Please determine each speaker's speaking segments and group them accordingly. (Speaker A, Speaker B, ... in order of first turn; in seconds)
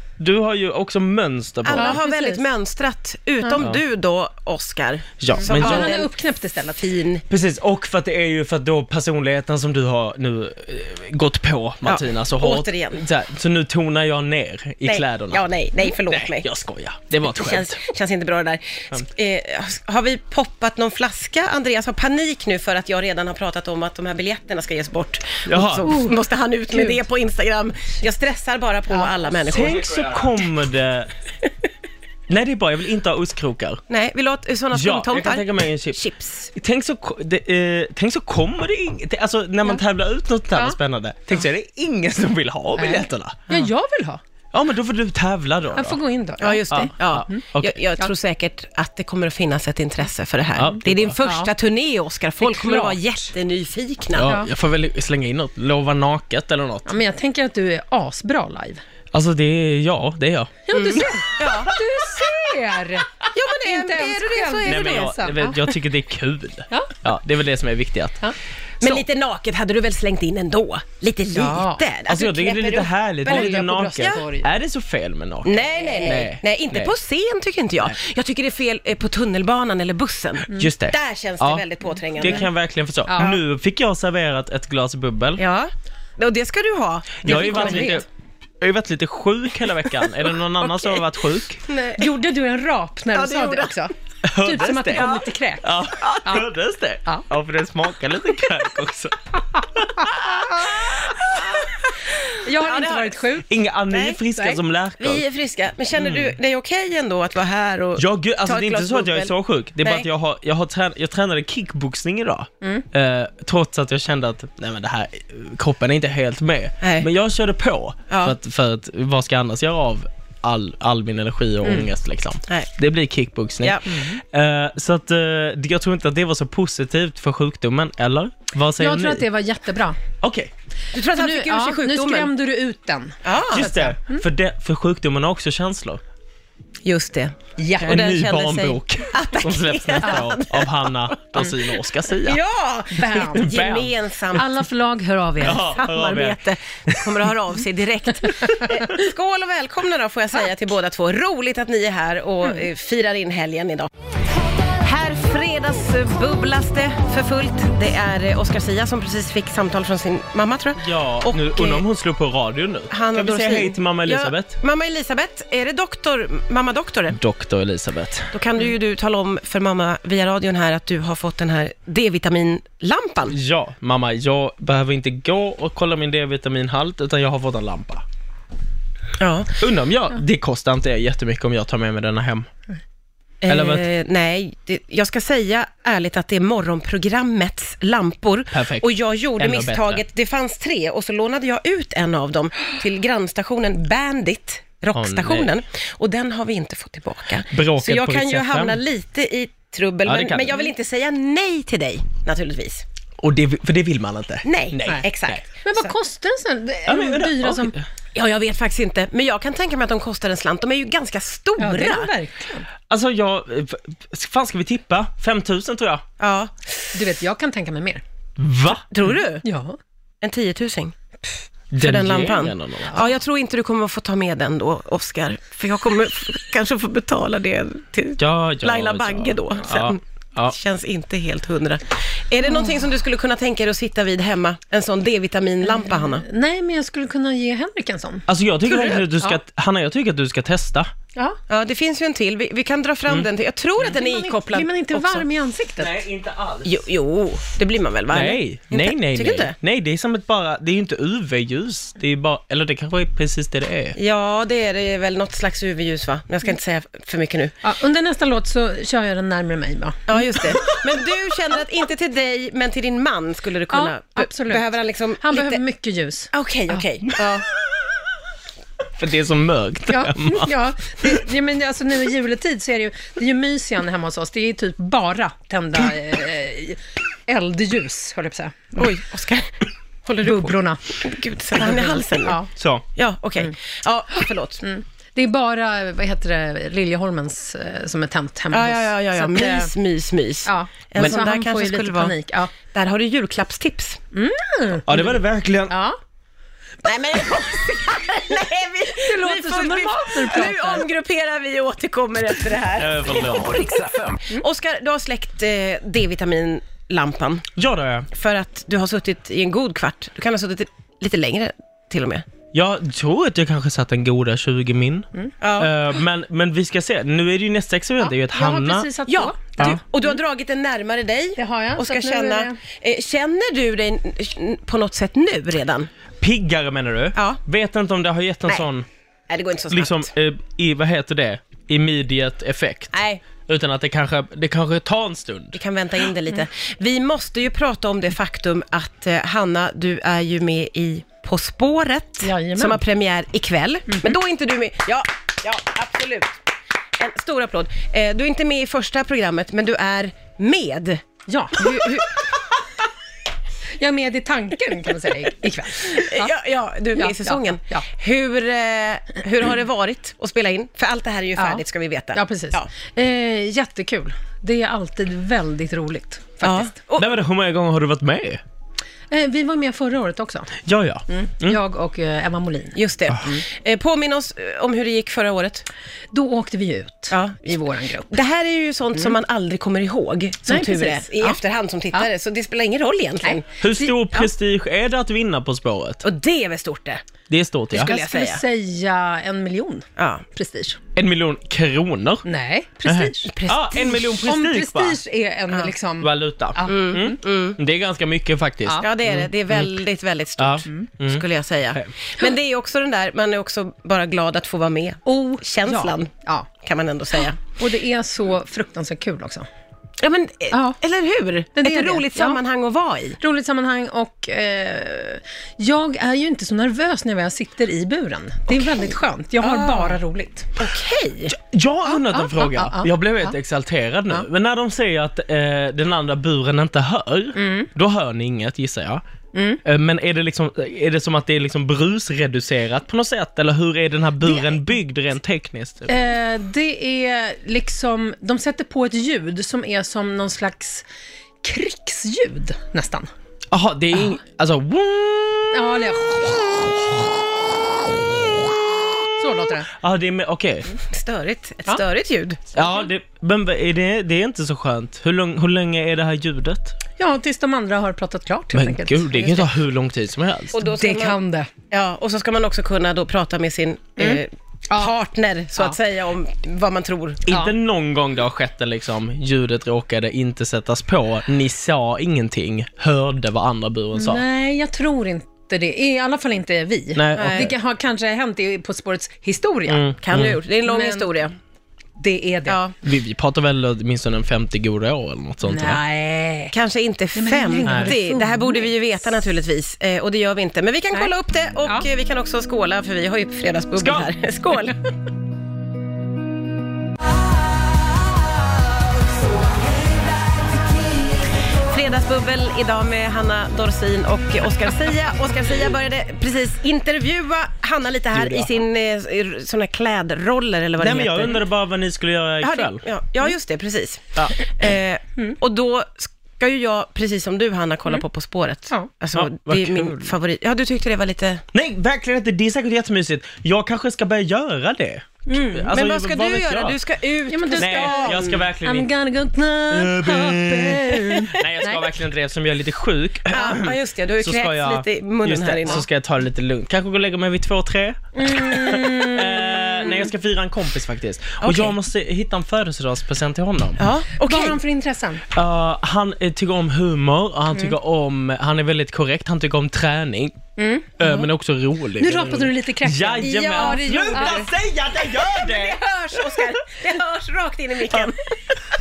Speaker A: 0.2-2.0, 5.2-6.0, 7.3-17.8, 25.5-25.9, 29.5-31.1, 32.3-33.8, 34.7-36.0, 36.5-43.7, 44.5-46.0, 46.7-47.8, 50.6-51.2, 54.1-57.0, 59.1-60.6, 64.6-68.3, 72.1-76.9, 80.5-85.4, 87.2-88.1, 88.6-91.6, 94.2-101.5, 103.5-105.2, 106.0-106.4, 108.0-129.2, 130.2-130.5, 133.5-136.0, 137.8-142.4, 143.1-143.9, 145.4-147.3, 160.8-164.6, 167.1-168.3, 173.3-178.0, 179.6-182.5, 183.5-183.9, 188.5-190.0, 194.9-195.5, 197.5-198.8, 200.1-200.6, 203.2-205.4, 206.9-207.8, 212.9-216.1, 218.4-218.8, 221.7-223.0, 228.2-230.6, 238.3-240.9, 245.8-246.8, 248.1-254.0, 269.0-270.5, 282.6-282.9, 294.9-295.8, 302.8-304.1, 307.6-308.1, 312.5-318.9, 326.2-328.9, 329.7-335.6, 367.0-368.4, 370.6-371.6, 383.6-386.0, 387.3-387.9, 391.0-392.3, 392.9-395.0, 396.0-399.8, 400.4-401.9, 421.3-429.0, 429.6-436.0, 443.5-445.8, 447.9-448.5, 449.7-450.7, 452.5-456.8, 458.5-460.6, 467.3-474.2, 476.9-477.5, 479.7-480.4, 482.8-485.8, 487.7-487.9, 493.8-494.1, 508.1-508.6, 510.8-512.8, 519.1-520.1, 521.5-526.8, 527.6-528.9, 529.7-543.8, 545.3-550.4, 551.0-556.5
Speaker B: 1.6-6.1, 6.8-7.2, 11.8-13.0, 14.8-16.5, 17.3-30.1, 33.9-36.5, 46.4-54.3, 60.7-61.7, 63.3-65.2, 68.8-74.2, 75.5-82.5, 85.4-88.0, 91.7-92.1, 93.1-93.7, 94.9-95.2, 102.6-103.2, 103.9-104.2, 105.0-110.1, 116.8-117.1, 118.1-118.4, 123.6-124.0, 130.9-132.3, 133.2-133.8, 136.8-141.6, 142.2-144.5, 145.4-153.9, 154.8-161.8, 162.9-167.2, 168.3-173.4, 179.2-179.6, 183.4-202.8, 204.4-205.9, 208.2-212.1, 216.2-216.8, 218.9-219.4, 220.2-220.9, 221.8-236.2, 238.7-239.3, 241.5-245.2, 246.7-249.6, 254.0-257.5, 260.1-265.6, 266.3-267.5, 278.8-279.5, 280.1-282.4, 283.0-284.6, 288.5-292.1, 292.7-294.0, 296.8-307.5, 308.1-312.2, 315.4-315.7, 319.1-325.9, 329.3-330.1, 332.9-333.2, 335.6-346.4, 347.0-351.0, 351.5-352.4, 355.9-362.7, 366.4-367.1, 372.8-375.7, 377.1-383.5, 386.0-387.1, 387.7-388.4, 390.0-390.2, 393.3-394.1, 396.7-397.6, 398.8-406.1, 406.6-407.4, 410.0-413.2, 419.4-420.0, 420.6-421.3, 450.8-452.6, 460.5-461.2, 461.7-467.3, 477.2-477.5, 480.0-481.3, 482.5-482.8, 486.5-494.8, 501.6-511.4, 512.4-521.4, 525.7-528.5, 533.3-535.9, 541.4-541.8, 543.8-544.6, 551.0-551.3, 553.2-554.5, 555.1-558.3
Speaker C: 1.7-2.4, 5.3-7.0, 25.9-26.2, 26.7-27.0, 42.8-44.2, 45.7-47.4, 51.2-51.5, 52.4-53.0, 54.2-54.5, 56.9-58.8, 60.7-65.6, 66.7-67.0, 71.3-71.8, 73.2-74.5, 83.1-83.4, 87.2-88.0, 92.0-96.5, 102.4-103.5, 123.9-124.2, 128.8-130.0, 131.1-134.2, 137.6-137.9, 142.9-143.5, 144.3-145.7, 205.6-207.8, 211.6-212.7, 216.9-218.0, 219.4-219.8, 232.4-232.7, 235.6-238.3, 243.8-246.0, 257.6-260.2, 263.7-264.6, 265.2-266.8, 269.9-278.9, 280.2-280.8, 281.6-282.5, 284.6-289.7, 290.5-292.5, 294.1-294.9, 295.7-296.0, 298.9-300.9, 318.0-319.8, 321.4-322.6, 342.2-342.8, 351.3-351.9, 353.8-356.3, 357.0-357.9, 361.4-361.6, 362.1-366.7, 369.1-370.5, 371.1-373.4, 376.1-378.2, 380.5-381.4, 383.2-384.3, 387.7-390.8, 392.2-393.3, 394.2-397.2, 405.1-406.5, 407.5-409.5, 410.5-410.8, 411.6-412.4, 413.2-420.5, 421.9-423.4, 427.4-427.7, 429.3-429.6, 435.9-440.9, 441.4-443.1, 445.5-446.9, 449.2-449.7, 457.0-459.5, 460.6-461.5, 464.0-464.9, 473.9-481.1, 482.0-482.6, 485.4-486.5, 487.1-488.7, 525.3-525.7, 527.3-531.9, 538.1-540.0, 544.2-545.2, 550.6-550.9, 552.0-554.5